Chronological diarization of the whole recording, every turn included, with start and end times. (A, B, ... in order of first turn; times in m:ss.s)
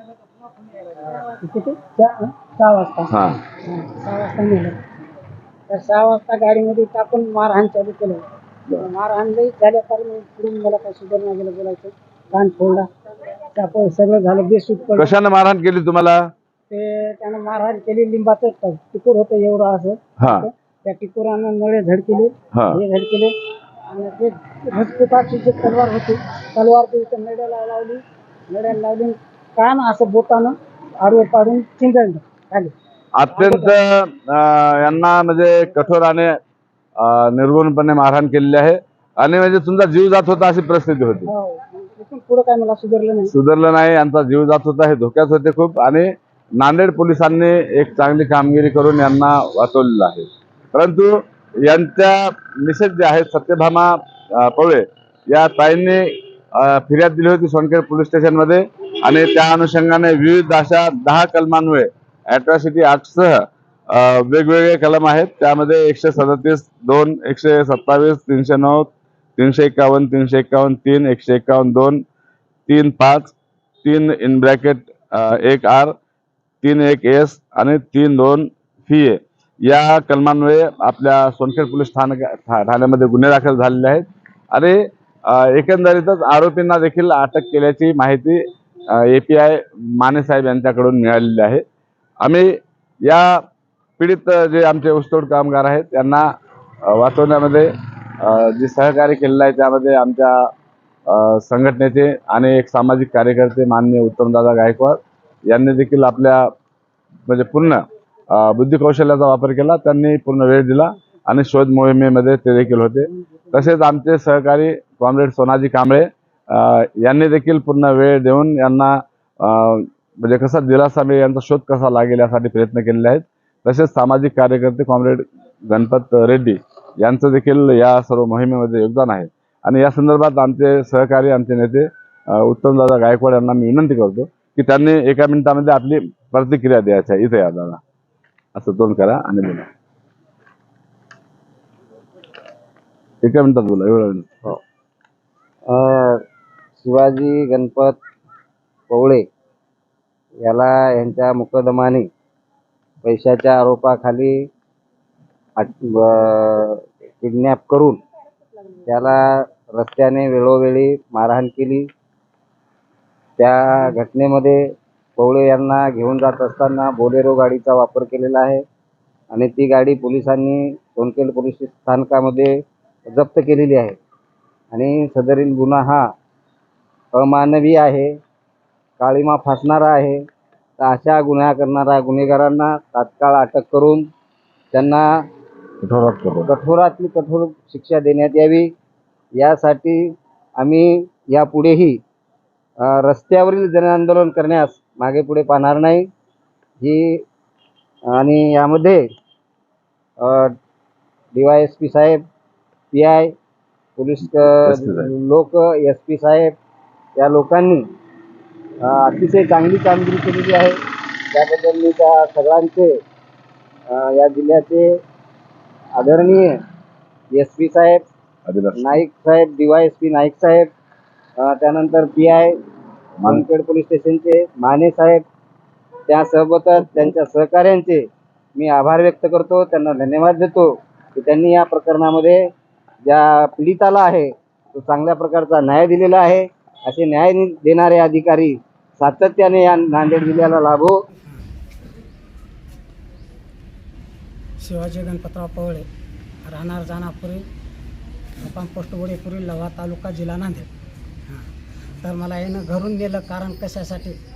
0:01.1-0:04.8 A
0:03.1-0:03.4 B
0:05.7-0:08.2 A
0:08.8-0:12.9 A
0:13.5-0:15.1 A
0:15.0-0:16.2 B
0:16.7-0:23.3 A
0:20.2-0:20.5 B
0:22.6-0:22.8 B
0:23.9-0:32.7 A
0:33.2-0:36.4 B
0:33.3-0:33.8 A
0:37.0-0:41.3 B
0:41.3-0:43.3 A
0:43.3-1:12.0 B
1:12.7-1:16.0 B
1:16.6-1:28.4 B
1:28.9-1:31.6 B
1:32.2-1:32.5 B
1:33.0-1:33.4 B
1:34.0-1:36.2 B
1:36.9-1:40.5 B
1:41.1-1:46.5 B
1:47.3-2:17.8 B
2:18.6-2:19.7 B
2:23.2-2:24.3 B
2:25.7-2:26.2 C
2:26.8-2:28.0 C
2:28.9-2:29.2 C
2:30.4-2:32.1 C
2:33.0-2:34.3 C
2:35.6-2:38.0 C
2:38.9-2:41.9 C
2:43.4-2:44.6 C
2:45.2-2:48.6 C
2:49.3-2:52.5 C
2:53.1-2:54.0 C
2:54.7-2:56.0 C
2:57.1-2:58.1 C
2:59.0-3:00.2 C
3:00.8-3:04.0 C
3:04.7-3:05.0 C
3:05.8-3:06.5 B
3:06.5-3:08.7 C
3:09.4-3:10.0 C
3:10.6-3:12.0 C
3:12.8-3:16.1 C
3:16.8-3:17.2 C
3:18.1-3:19.0 C
3:20.2-3:20.5 C
3:21.3-3:22.2 C
3:22.9-3:23.3 C
3:24.0-3:26.5 C
3:24.2-3:25.1 B
3:27.2-3:27.8 C
3:28.8-3:30.8 C
3:31.3-3:32.9 C
3:33.9-3:34.9 C
3:36.0-3:36.6 C
3:37.3-3:38.0 C
3:38.5-3:39.0 B
3:38.8-3:40.7 C
3:41.4-3:42.5 C
3:43.3-3:45.2 C
3:46.1-3:48.0 C
3:48.6-3:52.4 C
3:53.1-4:01.0 C
4:04.6-4:05.9 A
4:06.4-4:07.4 A
4:08.4-4:10.7 A
4:12.0-4:14.2 A